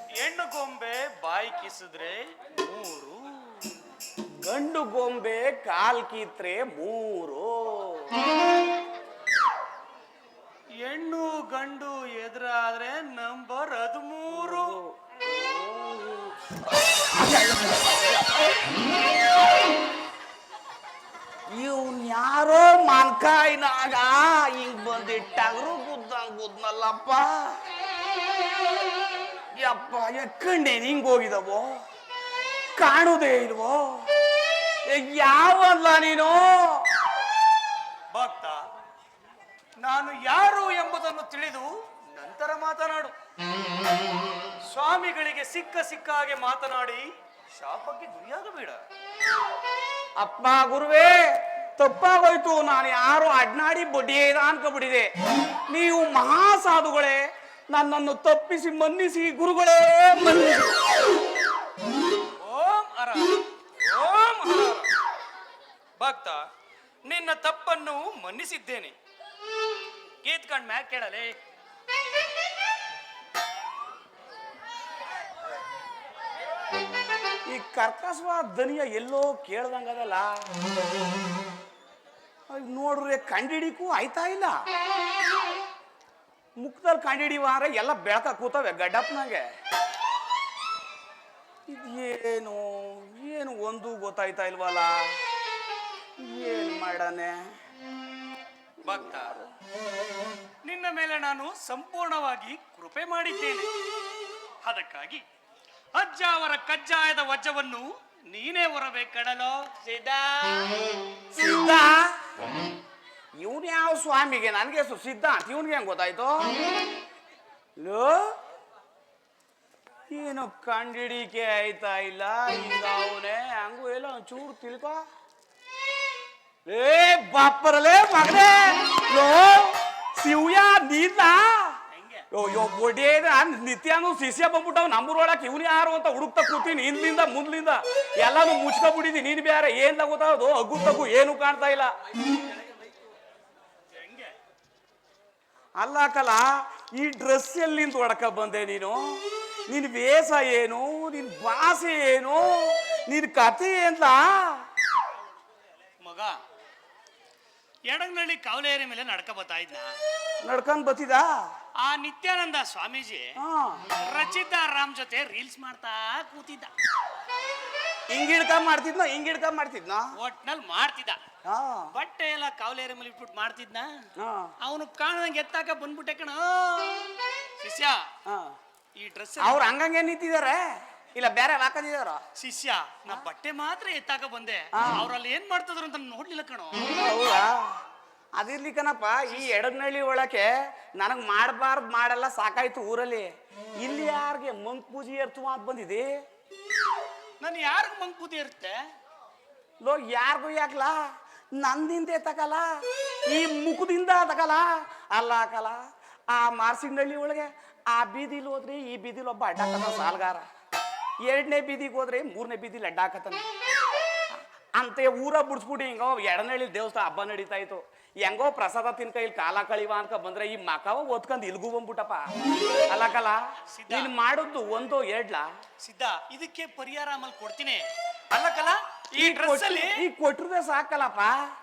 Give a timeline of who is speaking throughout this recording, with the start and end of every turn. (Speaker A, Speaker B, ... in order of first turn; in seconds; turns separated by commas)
Speaker A: 0.2-3.7, Speaker B: 4.4-8.2, Speaker A: 10.8-14.8, Speaker B: 14.3-18.4, Speaker B: 21.5-27.6, Speaker B: 29.5-31.7, Speaker B: 32.8-34.0, Speaker B: 34.9-36.9, Speaker A: 38.1-38.6, Speaker A: 39.8-43.1, Speaker A: 44.7-48.8, Speaker B: 50.2-55.1, Speaker B: 55.7-61.0, Speaker A: 62.4-64.9, Speaker A: 66.0-66.5, Speaker A: 67.0-69.0, Speaker A: 70.2-71.4, Speaker B: 77.5-80.5, Speaker B: 82.5-84.6, Speaker B: 86.6-89.5, Speaker B: 91.7-95.2, Speaker B: 96.2-97.5, Speaker A: 98.8-99.4, Speaker B: 98.9-99.4, Speaker A: 100.7-103.7, Speaker A: 104.6-105.2, Speaker A: 105.9-110.8, Speaker B: 111.3-112.2, Speaker B: 113.4-116.5, Speaker B: 117.8-118.3, Speaker B: 120.1-125.0, Speaker B: 126.7-131.8, Speaker A: 131.9-132.3, Speaker B: 132.3-141.9, Speaker A: 143.9-144.3, Speaker B: 145.8-154.7, Speaker A: 156.0-156.4, Speaker A: 157.9-160.0, Speaker B: 160.4-161.4, Speaker A: 161.8-163.4, Speaker B: 163.4-163.8, Speaker A: 163.9-166.7, Speaker B: 168.1-170.1, Speaker A: 170.2-171.2, Speaker B: 171.5-171.9, Speaker A: 171.9-174.0, Speaker B: 174.2-174.5, Speaker A: 174.6-178.1, Speaker B: 178.3-178.6, Speaker A: 179.0-179.7, Speaker B: 179.4-182.2, Speaker A: 182.4-186.9, Speaker B: 184.8-185.1, Speaker B: 186.9-187.8, Speaker B: 188.4-196.1, Speaker A: 197.4-198.8, Speaker B: 199.8-201.0, Speaker B: 201.6-202.7, Speaker B: 203.3-210.4, Speaker B: 211.2-213.4, Speaker B: 214.8-222.2, Speaker B: 222.9-225.5, Speaker A: 223.7-224.1, Speaker A: 225.8-230.0, Speaker B: 229.2-231.4